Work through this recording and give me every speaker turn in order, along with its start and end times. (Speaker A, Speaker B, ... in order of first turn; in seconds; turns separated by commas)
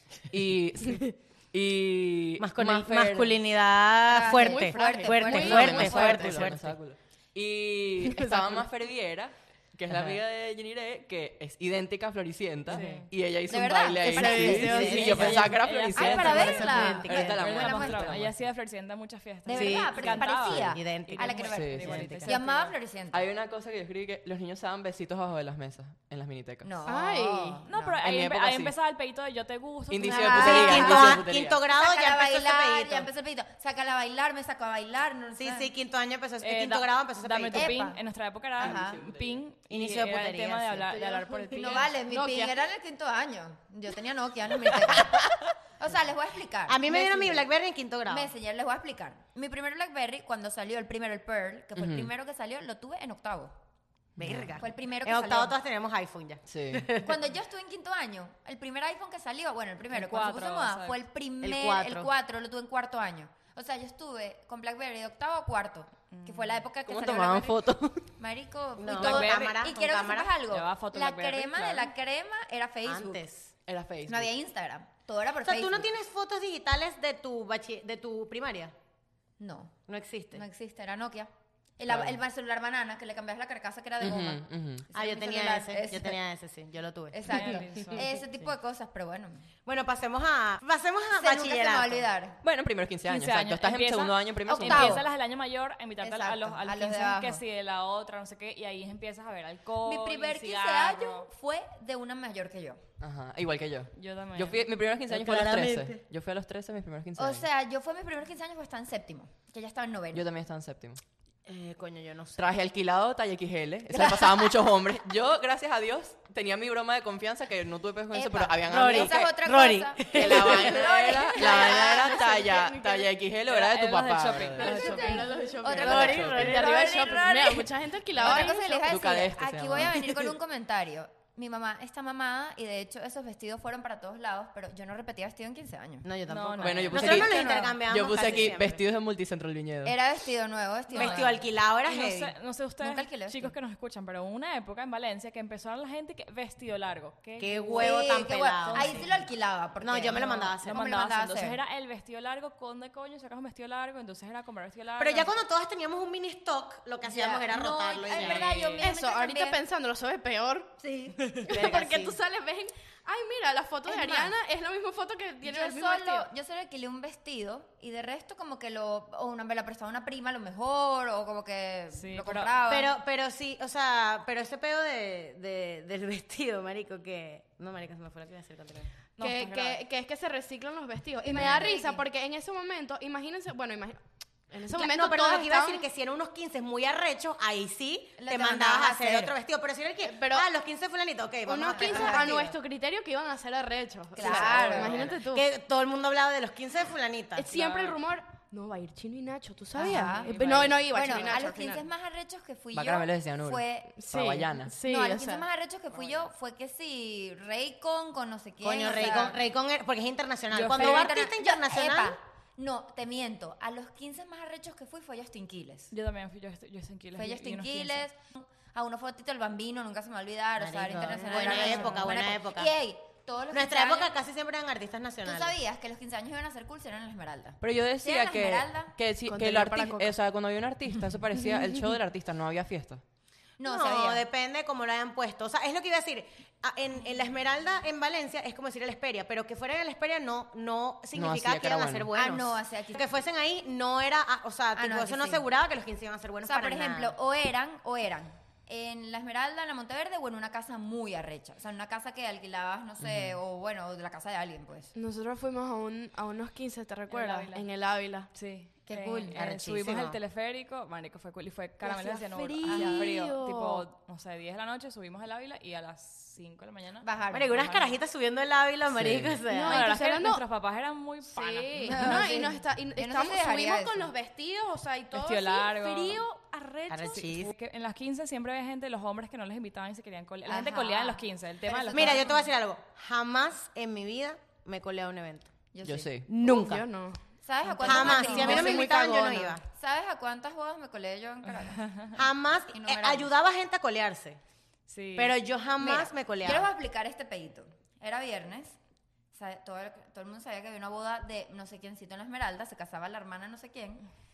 Speaker A: 0.3-3.4, Speaker B: 2.4-6.7, Speaker C: 4.1-6.5, Speaker D: 4.3-6.4, Speaker A: 5.2-18.4, Speaker D: 8.2-8.6, Speaker E: 12.7-13.1, Speaker C: 13.5-15.4, Speaker B: 14.1-15.5, Speaker D: 14.2-15.5, Speaker E: 14.8-22.7, Speaker C: 15.9-18.2, Speaker D: 16.1-17.3, Speaker B: 16.3-17.6, Speaker C: 19.4-23.3, Speaker B: 19.5-22.3, Speaker A: 21.5-22.1, Speaker A: 23.1-26.7, Speaker C: 26.6-28.0, Speaker D: 26.9-27.6, Speaker E: 27.6-30.9, Speaker A: 28.0-28.7, Speaker A: 29.9-31.6, Speaker C: 30.1-35.7, Speaker B: 30.3-33.1, Speaker B: 35.3-37.8, Speaker E: 36.4-42.1, Speaker C: 37.5-38.0, Speaker C: 38.6-39.0, Speaker B: 39.7-41.0, Speaker D: 41.0-42.5, Speaker C: 41.5-47.5, Speaker B: 44.6-45.5, Speaker B: 46.6-48.3, Speaker C: 48.1-53.5, Speaker A: 51.8-52.1, Speaker B: 54.2-57.2, Speaker A: 54.2-54.6, Speaker C: 54.6-55.5, Speaker A: 56.5-56.9, Speaker C: 57.0-67.6, Speaker E: 59.9-61.0, Speaker B: 61.4-62.1, Speaker E: 66.1-66.6, Speaker A: 66.9-68.1, Speaker C: 68.2-73.2, Speaker B: 68.8-70.3, Speaker E: 68.9-69.5, Speaker E: 70.5-71.9, Speaker B: 72.8-73.5, Speaker A: 73.7-74.3, Speaker C: 74.0-75.9, Speaker B: 75.4-78.7, Speaker C: 79.4-79.8, Speaker B: 79.9-80.4, Speaker C: 80.3-86.2, Speaker A: 81.8-82.2, Speaker A: 84.0-84.9, Speaker B: 84.9-88.5, Speaker C: 87.1-89.5, Speaker E: 87.3-88.1, Speaker B: 89.7-92.1, Speaker C: 91.1-92.4, Speaker A: 92.4-95.0, Speaker E: 93.1-101.3, Speaker C: 94.5-95.1, Speaker C: 96.0-97.4, Speaker C: 99.8-102.8, Speaker A: 103.0-107.5, Speaker E: 103.9-104.6, Speaker B: 105.1-106.0, Speaker C: 107.2-110.3, Speaker A: 110.1-111.0, Speaker B: 111.5-112.5, Speaker A: 112.3-119.4, Speaker C: 118.1-122.3, Speaker B: 118.7-120.9, Speaker A: 120.1-125.0, Speaker D: 121.4-123.1, Speaker E: 123.5-125.4, Speaker D: 124.6-129.0, Speaker C: 124.6-136.1, Speaker B: 125.7-127.1, Speaker A: 125.7-126.5, Speaker A: 128.8-130.3, Speaker B: 136.0-138.8, Speaker E: 136.3-137.7, Speaker A: 136.6-139.9, Speaker C: 139.8-141.4, Speaker B: 140.9-142.3, Speaker E: 140.9-149.2, Speaker C: 142.8-143.5, Speaker B: 147.4-149.1, Speaker C: 147.8-151.6, Speaker B: 149.8-150.8, Speaker E: 150.6-155.3, Speaker B: 155.0-158.8, Speaker C: 157.0-159.6, Speaker E: 158.2-158.8, Speaker D: 158.8-160.7, Speaker C: 160.8-161.2, Speaker B: 161.3-162.2, Speaker D: 161.4-166.3, Speaker C: 163.8-164.3, Speaker C: 165.4-172.9, Speaker E: 171.9-172.5, Speaker B: 172.7-178.9, Speaker E: 179.2-179.8, Speaker D: 179.2-185.8, Speaker C: 181.2-182.0, Speaker B: 184.7-192.6, Speaker C: 188.2-189.3, Speaker D: 190.0-190.4, Speaker D: 191.5-195.4, Speaker C: 191.7-192.4, Speaker C: 194.1-195.1, Speaker B: 194.2-197.5, Speaker E: 194.6-195.1, Speaker D: 197.3-201.8, Speaker E: 197.5-198.0, Speaker C: 199.7-203.9, Speaker E: 200.0-200.8, Speaker A: 202.7-204.7, Speaker D: 204.0-205.4, Speaker C: 204.8-209.4, Speaker B: 208.6-212.2, Speaker E: 210.5-211.1, Speaker C: 210.7-215.9, Speaker E: 215.9-218.1, Speaker C: 217.2-224.1, Speaker B: 220.6-222.7, Speaker E: 221.5-221.9, Speaker B: 223.5-225.5, Speaker C: 225.2-228.9, Speaker A: 227.6-233.0, Speaker D: 229.2-230.1, Speaker C: 233.6-234.2, Speaker B: 233.6-247.1, Speaker A: 241.1-242.1, Speaker C: 242.1-243.1, Speaker C: 244.7-245.5, Speaker C: 246.4-254.9, Speaker A: 253.0-253.4, Speaker D: 254.9-258.3, Speaker E: 257.1-257.6, Speaker E: 258.3-268.0, Speaker C: 258.9-259.4, Speaker B: 259.3-260.2, Speaker D: 261.8-263.8, Speaker C: 262.6-263.1, Speaker C: 267.0-267.6, Speaker B: 267.3-269.9, Speaker A: 268.9-269.4, Speaker D: 269.5-270.4, Speaker E: 269.7-272.4, Speaker D: 271.3-277.3, Speaker C: 271.8-274.1, Speaker E: 275.1-276.2, Speaker B: 276.9-277.5, Speaker E: 277.1-282.3, Speaker C: 280.4-282.5, Speaker B: 281.9-285.5, Speaker C: 285.7-286.1, Speaker A: 285.8-286.3, Speaker B: 286.3-286.9, Speaker D: 286.4-289.6, Speaker C: 287.4-289.0, Speaker B: 287.8-289.6, Speaker C: 289.7-291.9, Speaker E: 291.4-292.1, Speaker B: 292.1-294.4, Speaker C: 292.7-293.3, Speaker E: 294.9-295.4, Speaker B: 295.2-296.7, Speaker C: 295.8-298.8, Speaker C: 299.3-304.0